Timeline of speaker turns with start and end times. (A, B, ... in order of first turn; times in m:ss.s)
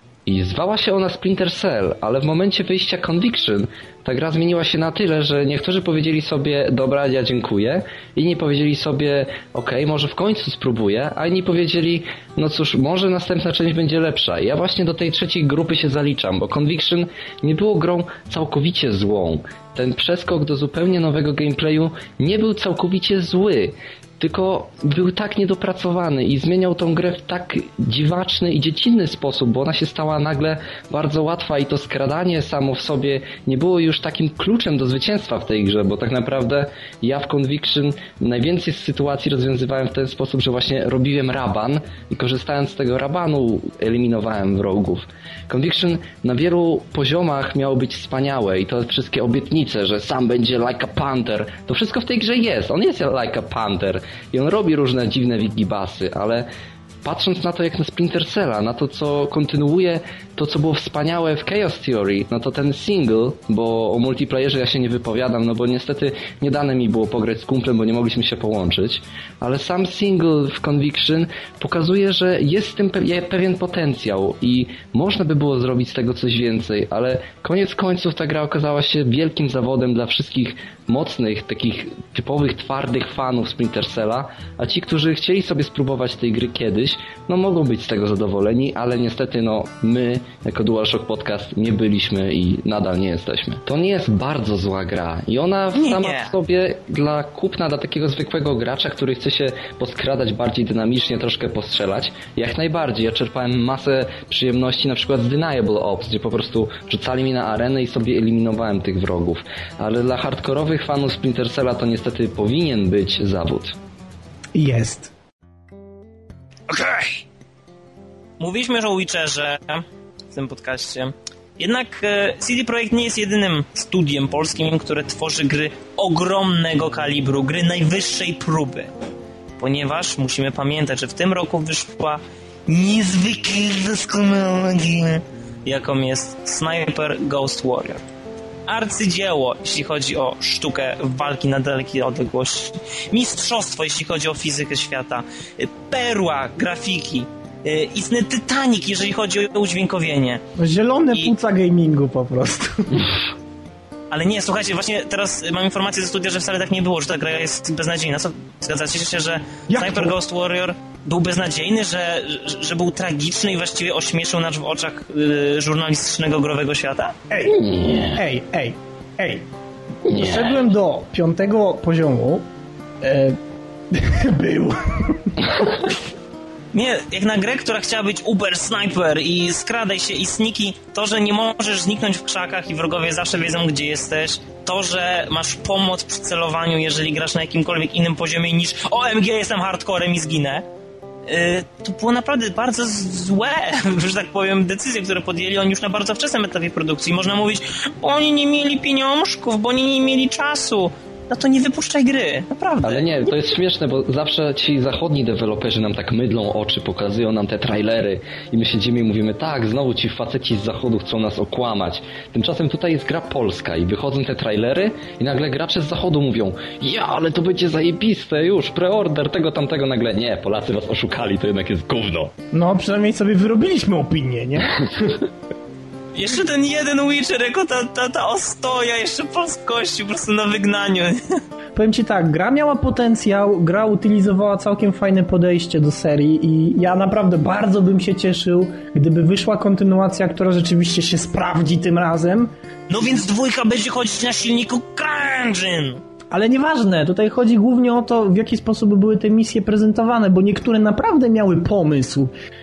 0:00.3-0:56.5 A
0:57.0-1:53.8 A
1:35.7-1:36.3 B
1:54.6-1:55.1 C
1:56.7-1:57.2 B
1:58.4-2:08.9 B
2:09.6-2:18.0 B
2:18.7-2:30.4 B
2:30.6-2:33.1 C
2:34.1-2:47.2 B
2:39.7-2:40.1 C
2:47.3-2:47.6 C
2:47.5-2:48.2 A
2:48.1-2:49.5 C
2:50.1-2:50.6 A
2:50.1-2:52.4 C
2:53.0-2:53.4 C
2:53.9-2:55.8 C
2:56.7-3:10.6 B
3:11.3-3:23.3 B
3:22.8-3:42.3 A
3:42.5-3:45.1 C
3:46.1-3:51.4 B
3:51.8-4:02.5 C
4:02.9-4:06.0 B
4:06.3-4:12.3 C